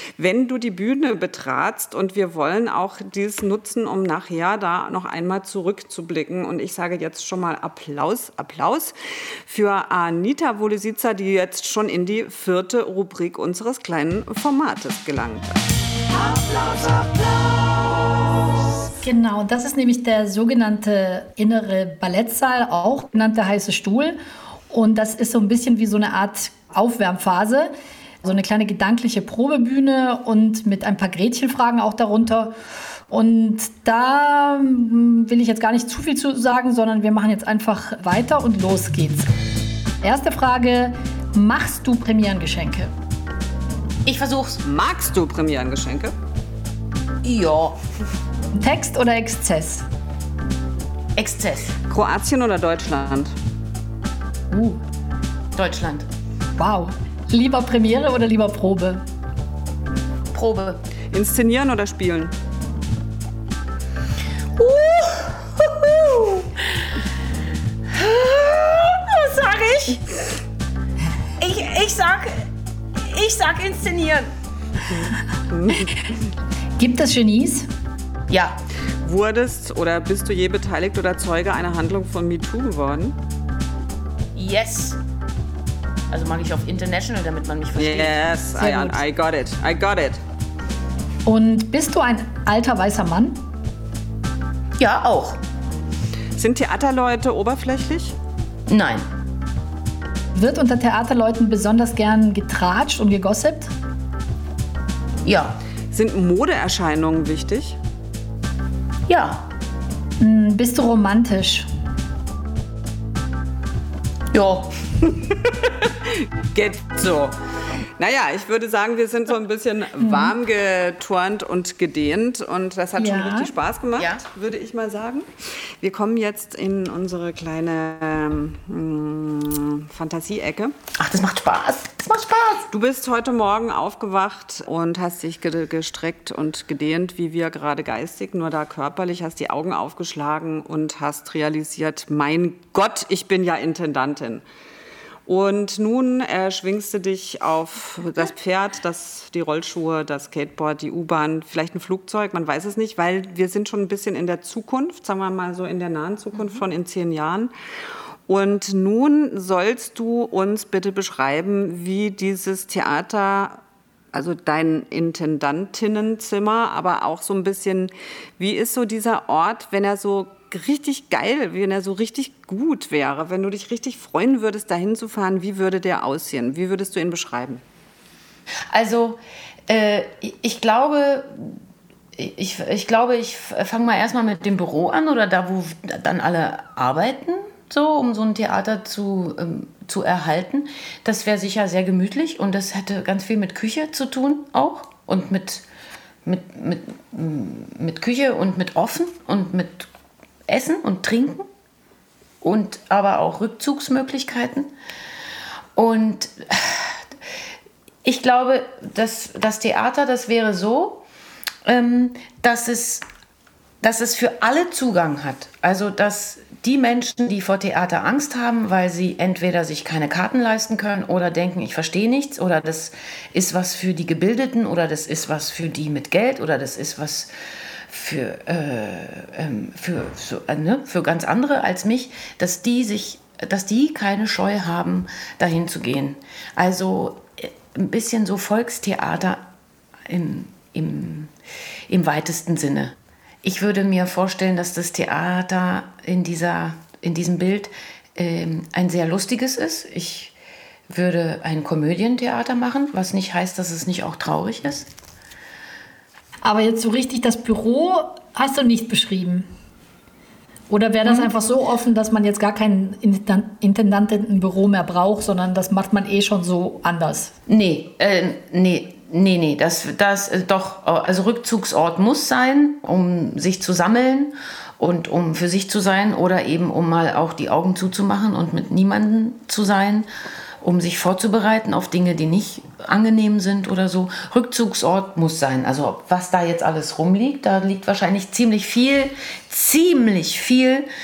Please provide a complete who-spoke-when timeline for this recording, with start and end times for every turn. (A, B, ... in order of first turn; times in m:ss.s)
0:00.2-0:08.9 A
0:09.5-0:15.6 A
0:19.0-0:24.2 B
0:24.7-0:27.7 B
0:28.2-0:32.6 B
0:33.1-0:39.3 B
0:40.0-0:42.9 B
0:44.0-0:44.6 C
0:44.6-0:46.1 A
0:47.2-0:47.8 C
0:48.6-0:49.9 B
0:51.2-0:51.8 C
0:51.9-0:53.3 A
0:54.5-0:54.8 B
0:55.6-0:56.1 C
0:56.6-0:59.0 B
1:00.3-1:00.8 C
1:01.1-1:02.3 A
1:04.6-1:06.9 C
1:07.9-1:10.2 C
1:11.4-1:14.3 C
1:14.9-1:16.2 A
1:16.8-1:17.7 B
1:18.3-1:18.6 C
1:19.0-1:23.2 A
1:24.4-1:25.0 C
1:26.1-1:28.4 C
1:27.8-1:30.2 A
1:28.6-1:29.0 B
1:31.3-1:33.4 B
1:34.8-1:35.4 C
1:36.4-1:38.2 A
1:38.7-1:39.0 C
1:40.4-1:43.7 B
1:45.2-1:45.6 C
1:45.9-1:47.8 A
1:49.1-1:49.5 C
1:50.2-1:51.7 B
1:54.3-1:54.7 C
1:55.6-1:57.4 A
1:58.0-2:10.8 A
2:00.0-2:00.4 B
2:03.0-2:03.5 B
2:04.0-2:04.2 C
2:11.0-2:12.7 C
2:12.7-2:24.4 A
2:25.3-2:37.5 A
2:38.3-2:43.6 A
2:44.1-2:57.6 A
2:58.7-3:01.6 C
3:02.2-3:15.6 C
3:16.2-3:19.9 C
3:20.5-3:21.5 C
3:22.4-3:24.7 C
3:25.8-3:27.0 C
3:28.0-3:31.0 C
3:31.6-3:33.0 C
3:33.8-3:47.3 C
3:47.9-3:59.4 C
4:00.1-4:01.3 C
4:01.9-4:10.4 C
4:10.9-4:14.9 C
4:16.4-4:19.5 B
4:20.7-4:27.3 B
4:27.5-4:40.1 C
4:40.6-4:50.9 C